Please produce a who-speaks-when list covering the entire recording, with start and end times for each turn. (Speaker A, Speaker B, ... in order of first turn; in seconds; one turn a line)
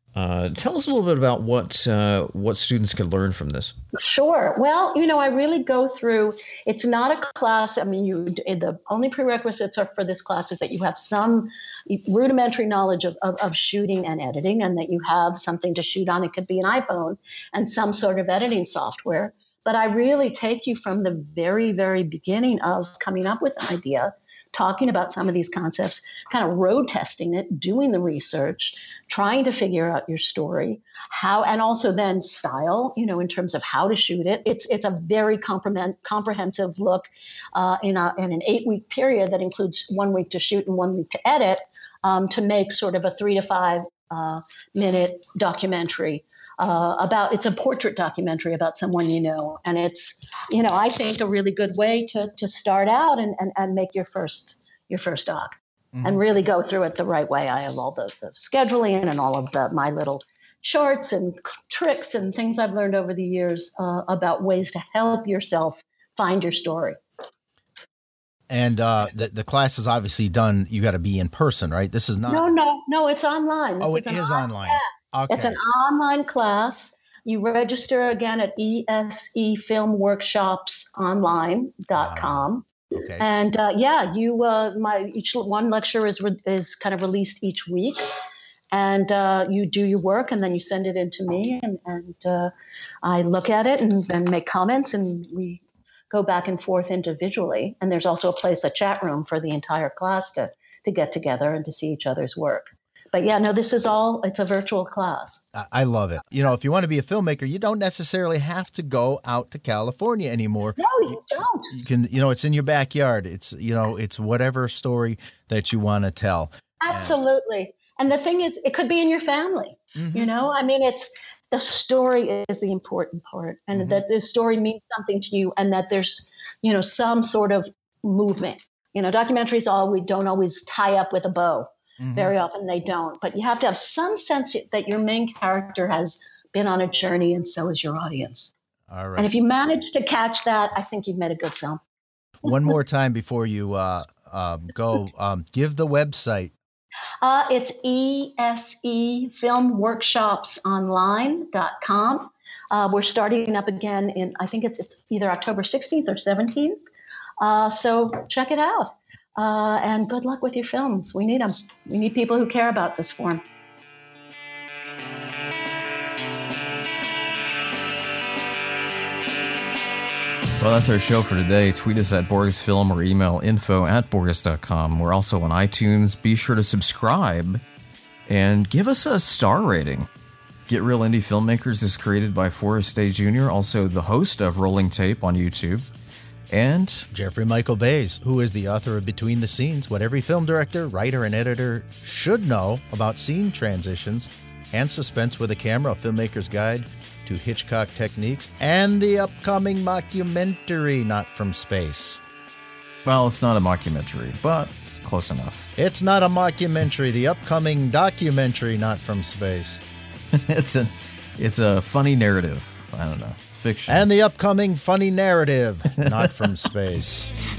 Speaker A: 0.1-3.8
Speaker B: 3.9-67.0
Speaker C: 56.0-56.2
Speaker C: 68.5-72.5
Speaker B: 72.3-82.7
Speaker C: 73.8-75.6
Speaker C: 82.0-83.2
Speaker B: 83.2-88.0
Speaker B: 88.7-92.5
Speaker B: 93.0-105.4
Speaker C: 105.5-111.2
Speaker B: 110.8-111.8
Speaker C: 111.7-117.2
Speaker B: 116.8-138.5
Speaker C: 120.0-120.3
Speaker C: 123.7-124.0
Speaker C: 132.0-132.3
Speaker C: 138.9-139.3
Speaker B: 139.2-141.8
Speaker C: 142.4-146.5
Speaker B: 147.2-156.8
Speaker B: 157.4-163.4
Speaker D: 170.6-177.6
Speaker D: 178.3-180.1
Speaker D: 180.7-185.8
Speaker D: 186.5-187.1
Speaker C: 187.1-202.2
Speaker D: 203.1-205.7
Speaker C: 205.8-209.8
Speaker D: 210.3-214.1
Speaker C: 213.9-217.3